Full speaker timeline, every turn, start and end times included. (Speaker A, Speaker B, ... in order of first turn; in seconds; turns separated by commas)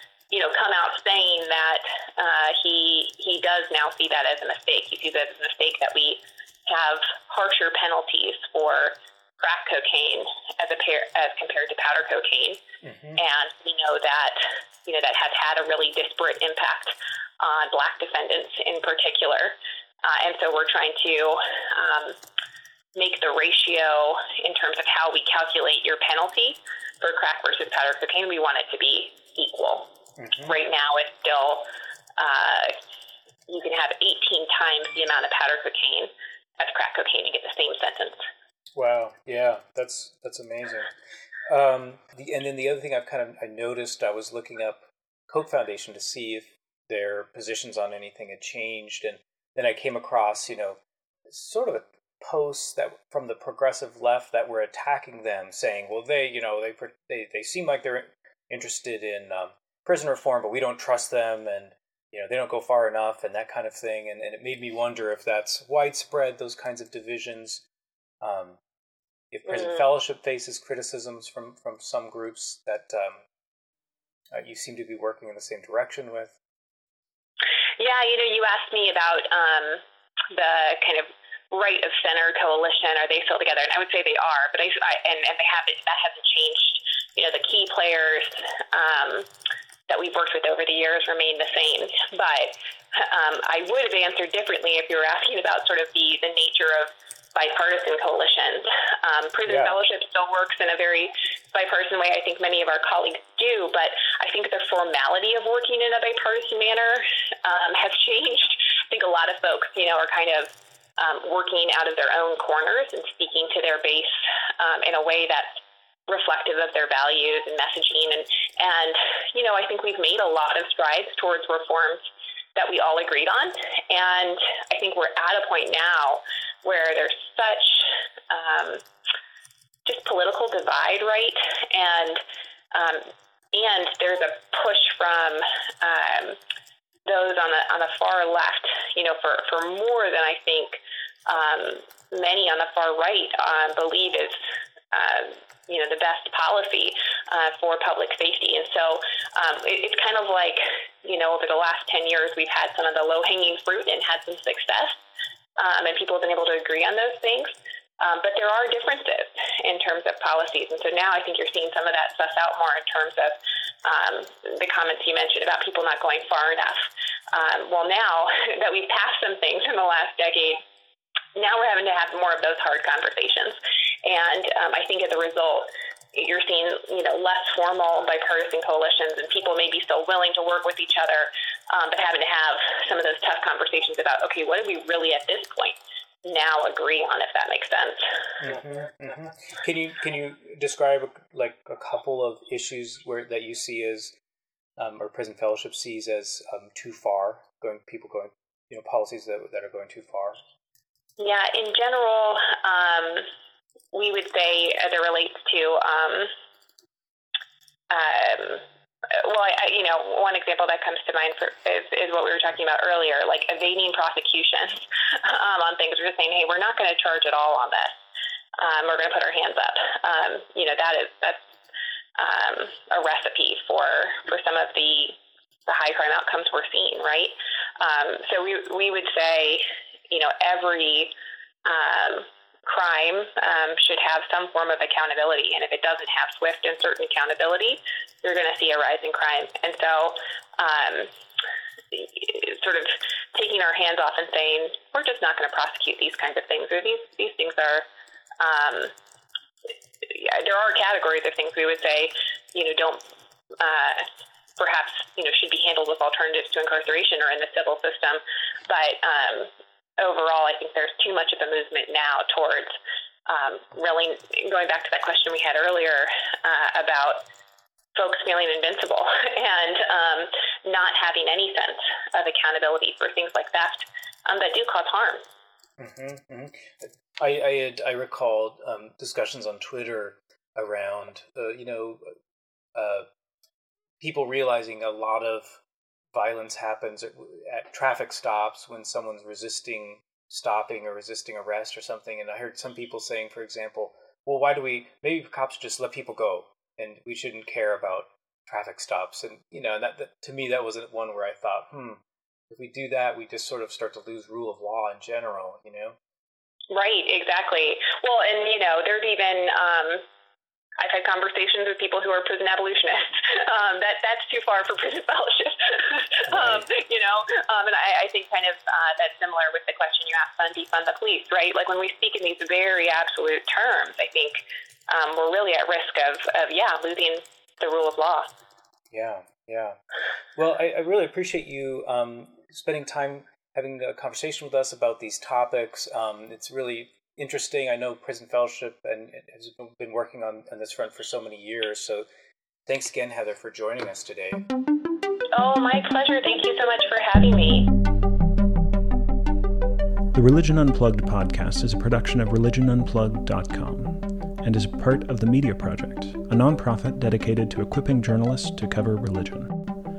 Speaker A: 0.3-12.6, Speaker B: 12.8-13.2, Speaker A: 13.2-22.2, Speaker A: 22.9-31.7, Speaker B: 30.2-30.6, Speaker A: 32.2-32.8, Speaker A: 33.5-38.2, Speaker B: 38.8-40.9, Speaker B: 41.5-67.6, Speaker B: 68.2-68.6, Speaker B: 69.3-73.3, Speaker B: 74.3-76.4, Speaker A: 77.8-89.3, Speaker A: 89.9-122.0, Speaker B: 99.5-99.8, Speaker A: 122.5-128.8, Speaker A: 129.8-136.4, Speaker A: 137.1-144.4, Speaker A: 144.9-155.0, Speaker A: 155.6-170.6, Speaker A: 171.3-188.1, Speaker B: 188.4-194.2, Speaker B: 194.8-200.4, Speaker A: 201.2-203.3, Speaker A: 203.9-206.3, Speaker A: 207.9-217.9, Speaker A: 218.6-221.4, Speaker A: 222.2-231.1, Speaker A: 231.7-241.1, Speaker A: 241.9-247.9, Speaker A: 248.4-248.9, Speaker A: 250.0-253.0, Speaker A: 253.6-262.8, Speaker A: 263.3-267.2, Speaker A: 267.9-275.2, Speaker B: 275.8-282.1, Speaker B: 282.8-283.1, Speaker B: 284.0-285.6, Speaker B: 286.1-306.0, Speaker A: 306.7-310.0, Speaker A: 310.8-328.3, Speaker B: 316.3-316.7, Speaker B: 328.9-329.8, Speaker B: 330.4-342.1, Speaker B: 342.7-344.4, Speaker A: 345.3-347.7, Speaker C: 350.1-359.6